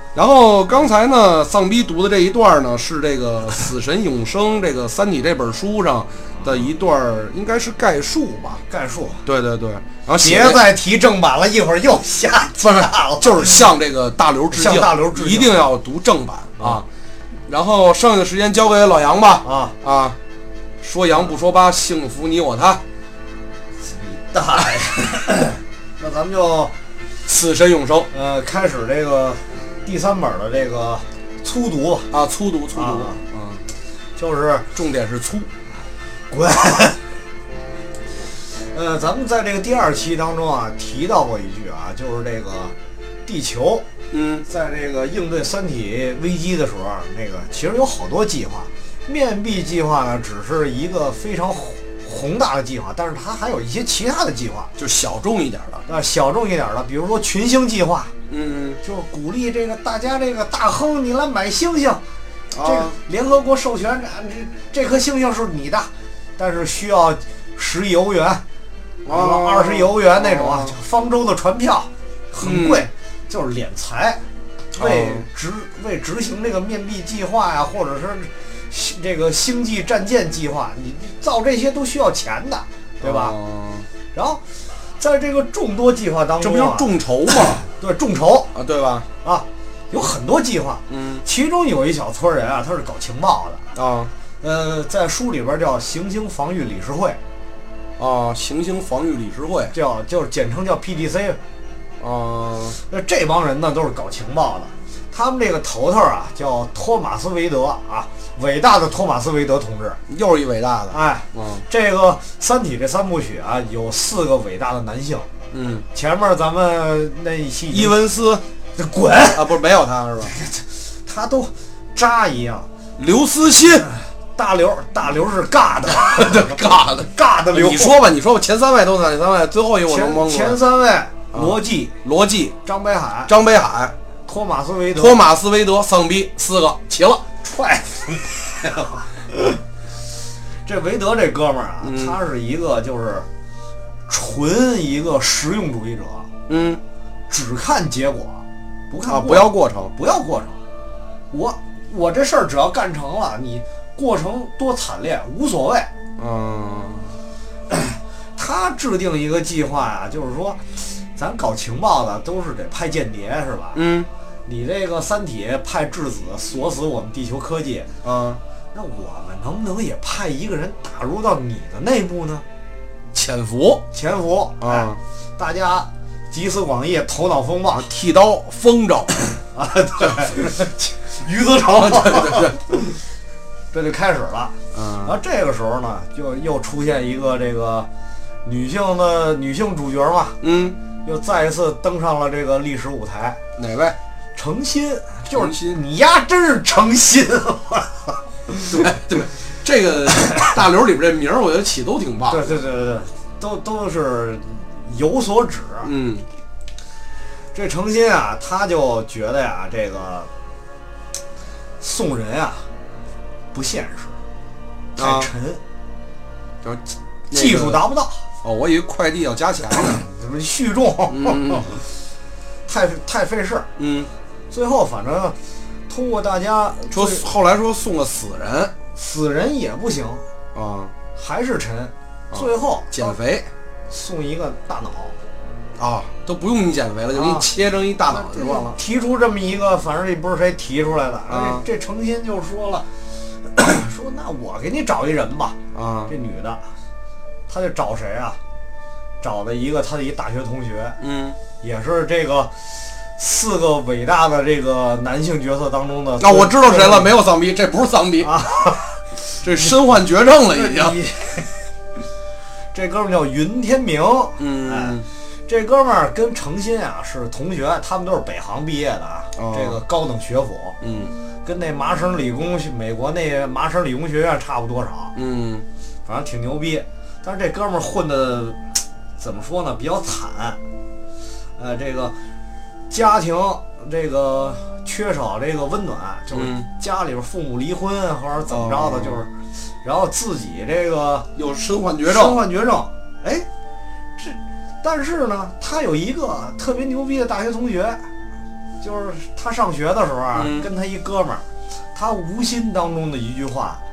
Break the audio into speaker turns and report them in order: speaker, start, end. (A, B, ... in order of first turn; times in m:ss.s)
0:00.2-0:08.6 A
0:08.7-0:09.2 B
0:09.2-0:10.6 A
0:10.2-0:13.6 B
0:13.2-0:16.9 A
0:14.5-0:15.6 B
0:16.6-0:16.8 B
0:17.5-0:20.2 A
0:19.4-0:19.8 B
0:20.8-0:22.8 A
0:23.8-0:26.7 B
0:27.3-0:28.1 A
0:28.1-0:32.1 B
0:32.1-0:33.6 A
0:32.8-0:33.2 B
0:34.2-0:34.7 B
0:34.7-0:35.5 A
0:36.3-0:37.0 B
0:38.6-0:42.7 B
0:43.2-0:43.9 B
0:44.1-0:44.5 A
0:44.5-0:54.7 B
0:54.8-0:55.9 A
0:55.9-0:58.1 B
0:58.3-0:58.8 A
0:58.8-1:02.0 B
1:02.5-1:02.9 A
1:02.6-1:08.4 B
1:09.0-1:10.8 A
1:09.1-1:14.2 B
1:12.4-1:12.9 A
1:14.8-1:15.3 A
1:14.8-1:23.4 B
1:23.0-1:23.9 A
1:24.1-1:24.4 B
1:25.0-1:28.5 B
1:26.4-1:27.6 A
1:28.5-1:29.1 A
1:29.2-1:33.6 B
1:30.9-1:31.2 A
1:33.8-1:34.1 A
1:34.4-1:37.2 B
1:38.0-1:39.7 A
1:39.7-1:41.4 B
1:42.0-1:42.8 A
1:42.8-1:50.0 B
1:50.1-1:51.6 A
1:50.9-1:55.3 B
1:55.5-1:55.9 A
1:55.9-1:58.0 B
1:57.7-1:58.4 A
1:58.8-1:59.4 B
1:59.3-2:00.3 A
2:00.2-2:02.7 B
2:03.0-2:03.9 A
2:04.4-2:08.0 B
2:05.9-2:10.6 A
2:09.9-2:12.0 B
2:11.3-2:12.6 A
2:12.6-2:13.3 B
2:13.3-2:13.9 A
2:14.3-2:15.2 B
2:15.0-2:17.3 A
2:17.4-2:19.6 B
2:20.6-2:23.3 B
2:21.8-2:22.2 A
2:24.1-2:26.3 B
2:26.5-2:26.8 A
2:27.3-2:30.6 B
2:29.1-2:29.9 A
2:31.3-2:35.9 B
2:36.2-2:37.2 A
2:37.7-2:43.8 B
2:43.8-2:44.1 A
2:44.5-2:47.9 B
2:48.0-2:48.4 A
2:48.7-2:52.4 B
2:53.1-2:53.8 A
2:53.9-2:57.9 B
2:54.6-2:55.0 A
2:57.7-2:59.1 A
2:59.5-3:03.0 B
3:01.7-3:02.6 A
3:03.7-3:07.9 B
3:04.7-3:05.2 A
3:08.4-3:10.4 B
3:10.4-3:10.8 A
3:11.0-3:13.4 B
3:13.6-3:14.0 A
3:14.4-3:18.9 B
3:15.3-3:15.8 A
3:18.7-3:22.5 A
3:22.3-3:25.9 B
3:25.8-3:26.3 A
3:27.5-3:30.3 B
3:31.8-3:32.7 B
3:33.5-3:34.2 B
3:35.0-3:35.6 B
3:35.0-3:35.3 A
3:36.6-3:37.8 A
3:37.3-3:38.3 B
3:38.4-3:40.0 A
3:39.8-3:41.8 B
3:41.1-3:41.7 A
3:42.7-3:43.7 B
3:43.8-3:44.1 A
3:44.5-3:45.4 B
3:45.9-3:47.3 B
3:46.9-3:48.7 A
3:49.0-3:50.2 B
3:50.5-3:50.9 A
3:51.2-3:53.2 B
3:52.3-3:53.5 A
3:53.9-3:55.2 B
3:55.8-3:58.8 A
3:57.1-3:57.5 B
3:58.1-4:02.9 B
4:01.3-4:01.6 A
4:03.5-4:05.6 B
4:05.7-4:06.1 A
4:06.1-4:06.6 B
4:07.5-4:08.4 B
4:09.2-4:11.0 B
4:11.0-4:11.4 A
4:11.6-4:17.1 B
4:16.2-4:18.4 A
4:18.2-4:19.0 B
4:19.4-4:21.0 A
4:20.5-4:21.6 B
4:22.7-4:30.8 B
4:24.4-4:25.1 A
4:29.4-4:29.8 A
4:30.8-4:31.1 A
4:31.4-4:35.2 B
4:35.2-4:35.6 A
4:36.1-4:40.6 B
4:41.6-4:42.2 B
4:42.9-4:49.3 B
4:46.3-4:46.7 A
4:48.5-4:49.2 A
4:49.8-4:51.3 B
4:51.4-4:52.4 A
4:52.0-4:53.5 B
4:54.2-4:58.1 B
4:58.8-5:03.8 B
5:00.3-5:00.7 A